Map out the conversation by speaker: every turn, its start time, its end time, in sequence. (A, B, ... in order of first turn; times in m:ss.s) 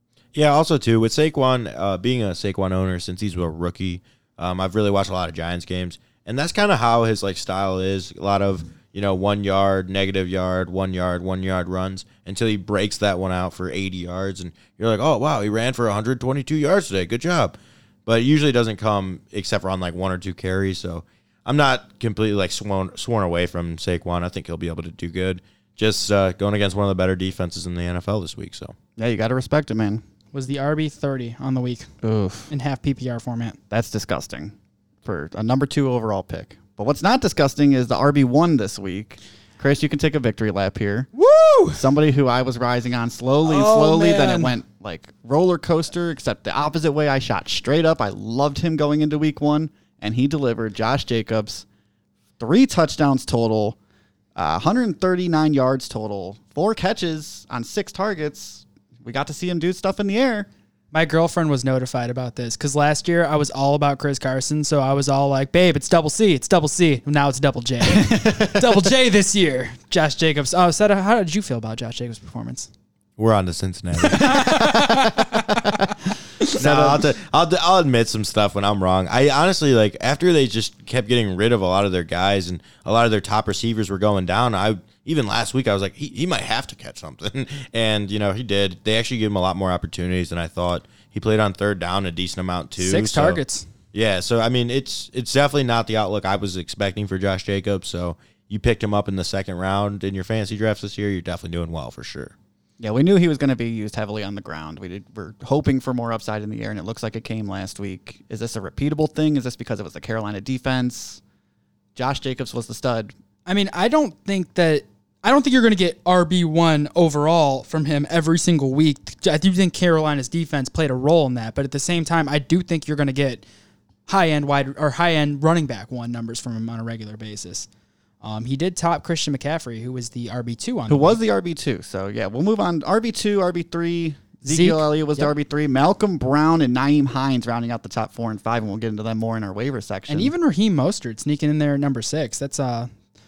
0:00.3-0:17.6 A
0:18.1-0:28.8 A
0:29.0-0:30.0 B
0:30.3-0:31.9 C
0:32.0-0:32.5 B
0:32.5-0:33.6 C
0:33.7-0:41.1 B
0:41.2-0:41.8 C
0:41.7-0:51.6 B
0:43.4-0:44.5 C
0:52.4-0:53.8 B
0:54.4-1:00.5 B
1:00.9-1:12.7 C
1:07.9-1:08.6 B
1:13.2-1:15.6 A
1:14.0-1:15.4 C
1:16.6-1:33.4 A
1:16.6-1:17.0 B
1:32.8-1:33.7 C
1:33.9-1:42.3 A
1:42.8-1:51.2 B
1:52.0-1:53.1 B
1:53.5-2:03.4 C
2:04.1-2:07.7 C
2:08.2-2:11.2 C
2:10.9-2:20.3 B
2:14.4-2:15.3 C
2:20.1-2:22.9 C